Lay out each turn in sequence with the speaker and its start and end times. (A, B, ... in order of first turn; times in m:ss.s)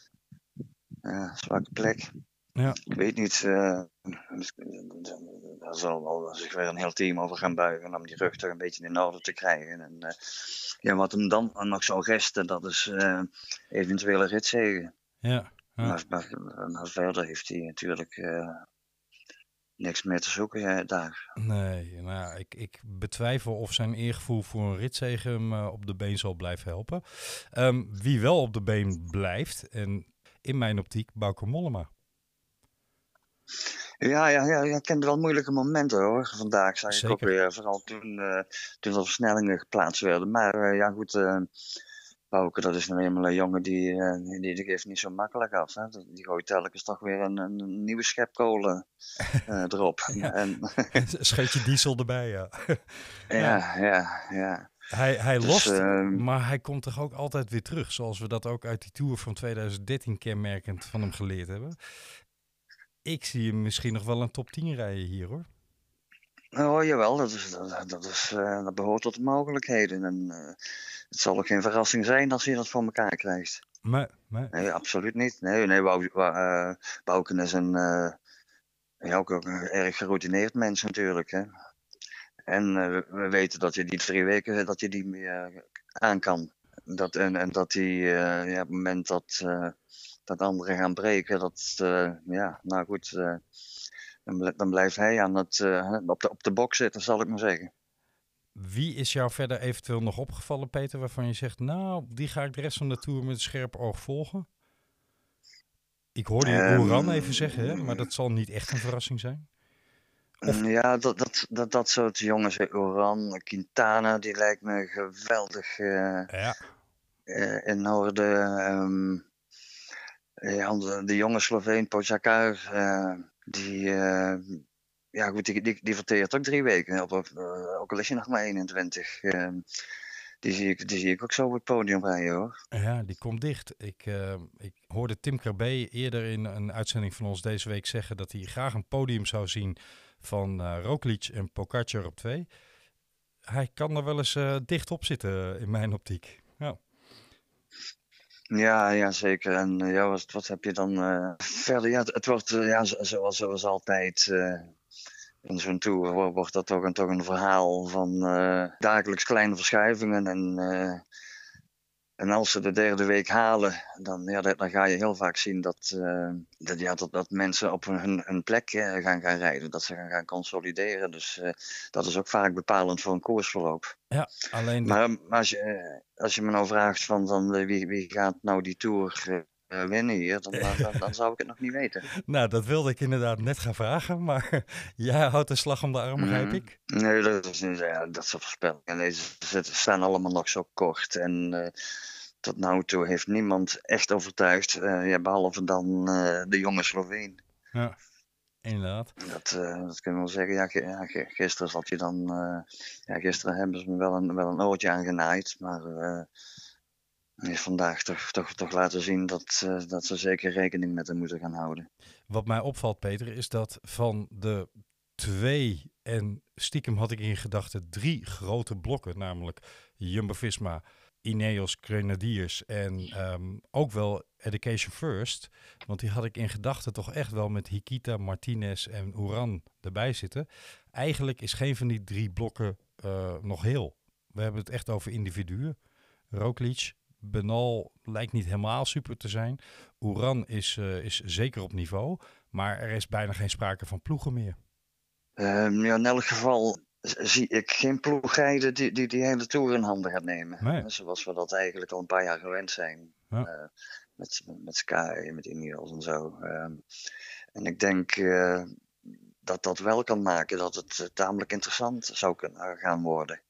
0:01.0-0:02.1 A
0:02.9-0:14.9 A
0:15.2-0:16.0 B
0:15.8-0:18.6 A
0:19.8-0:21.2 A
0:21.4-0:31.9 B
0:34.0-0:41.5 A
0:36.9-0:37.3 B
0:42.3-0:48.8 A
0:49.5-0:51.0 A
0:51.0-0:53.6 B
0:53.3-0:54.7 A
0:54.9-1:01.8 B
0:55.4-0:56.2 A
1:03.0-1:05.5 B
1:06.5-1:10.6 A
1:11.1-1:13.6 A
1:13.8-1:14.5 B
1:14.5-1:18.2 A
1:19.0-1:21.5 A
1:22.5-1:29.8 A
1:30.3-1:33.4 A
1:34.2-1:37.7 A
1:38.6-1:44.5 B
1:46.1-1:49.4 B
1:46.4-1:47.9 A
1:50.4-1:56.3 A
1:56.3-1:56.6 B
1:57.3-1:59.2 A
2:00.4-2:04.6 A
2:05.1-2:09.6 A
2:10.4-2:12.5 A
2:12.7-2:22.5 B
2:23.5-2:26.8 B
2:28.5-2:34.7 A
2:35.4-2:41.0 A
2:42.2-2:53.9 A
2:54.1-2:55.0 B
2:54.8-3:02.0 A
3:02.2-3:06.7 B
3:06.2-3:11.7 A
3:12.4-3:17.4 A
3:18.6-3:19.1 B
3:19.2-3:26.3 A
3:27.4-3:31.9 A
3:32.3-3:55.8 B
3:56.3-4:04.6 B
4:05.4-4:16.8 A
4:10.6-4:10.9 B
4:17.5-4:18.7 A
4:19.4-4:23.4 A